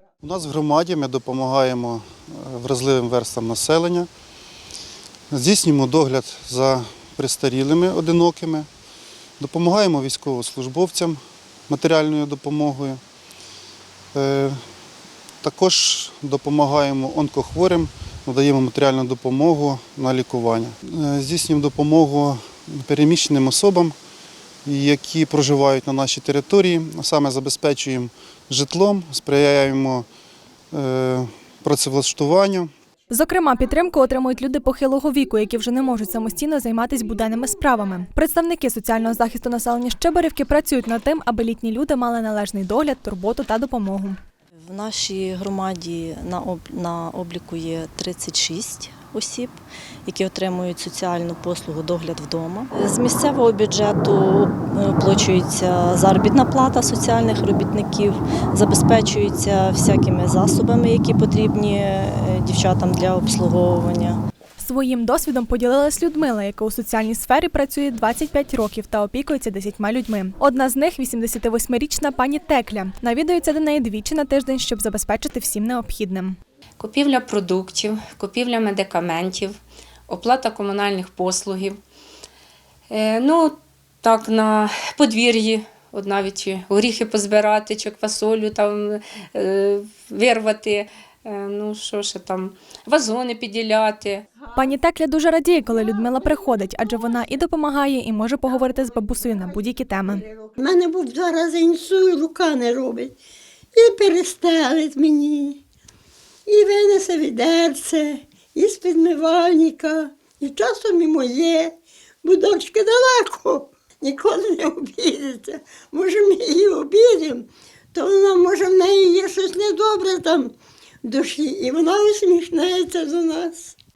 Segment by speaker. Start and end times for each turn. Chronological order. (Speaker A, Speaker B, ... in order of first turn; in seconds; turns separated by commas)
Speaker A: 0.2-4.1, Speaker A: 5.3-8.7, Speaker A: 9.4-13.0, Speaker A: 14.1-14.6, Speaker A: 15.4-23.9, Speaker A: 24.6-30.1, Speaker A: 30.7-32.7, Speaker B: 33.1-44.2, Speaker C: 44.6-64.2, Speaker B: 64.6-76.3, Speaker D: 76.8-79.5, Speaker D: 80.1-81.8, Speaker D: 82.9-94.2, Speaker B: 94.5-100.3, Speaker E: 100.6-103.2, Speaker E: 103.7-105.6, Speaker E: 106.5-120.5, Speaker E: 121.0-123.8